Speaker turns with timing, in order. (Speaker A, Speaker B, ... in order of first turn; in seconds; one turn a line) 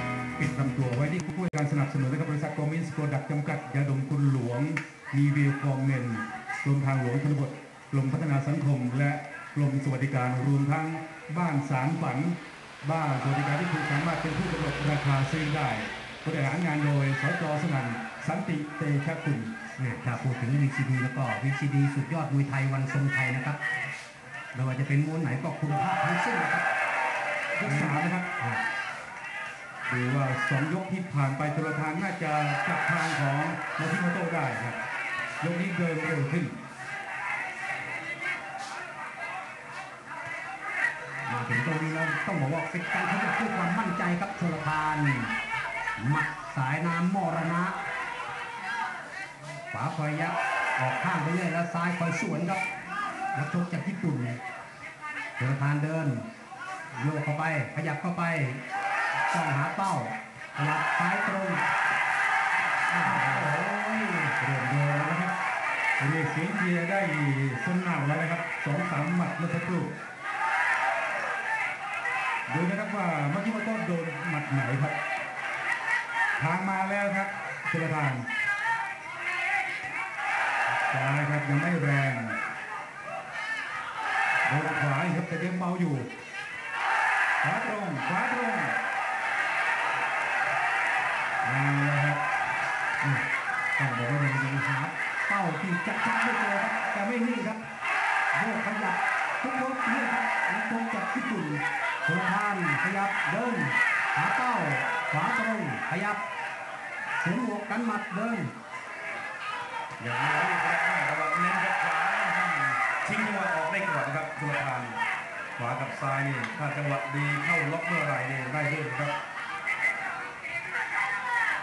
Speaker A: 0.4-19.5
Speaker B: 19.8-23.6
Speaker B: 24.5-26.7
Speaker A: 27.6-28.3
Speaker B: 27.6-28.6
Speaker A: 29.9-34.8
Speaker A: 35.4-36.6
Speaker B: 41.3-45.3
Speaker B: 46.0-47.8
Speaker B: 49.7-52.6
Speaker B: 53.3-54.4
Speaker B: 55.4-56.3
Speaker B: 56.9-58.6
Speaker B: 59.3-61.7
Speaker B: 62.9-64.3
Speaker A: 63.0-63.5
Speaker A: 64.4-65.3
Speaker A: 66.0-70.0
Speaker A: 72.5-75.0
Speaker A: 76.4-78.3
Speaker A: 80.9-82.4
Speaker A: 84.5-86.1
Speaker A: 87.4-88.8
Speaker A: 91.4-92.2
Speaker B: 93.8-97.6
Speaker B: 98.3-106.2
Speaker B: 107.2-108.5
Speaker A: 110.0-115.0
Speaker A: 115.6-119.1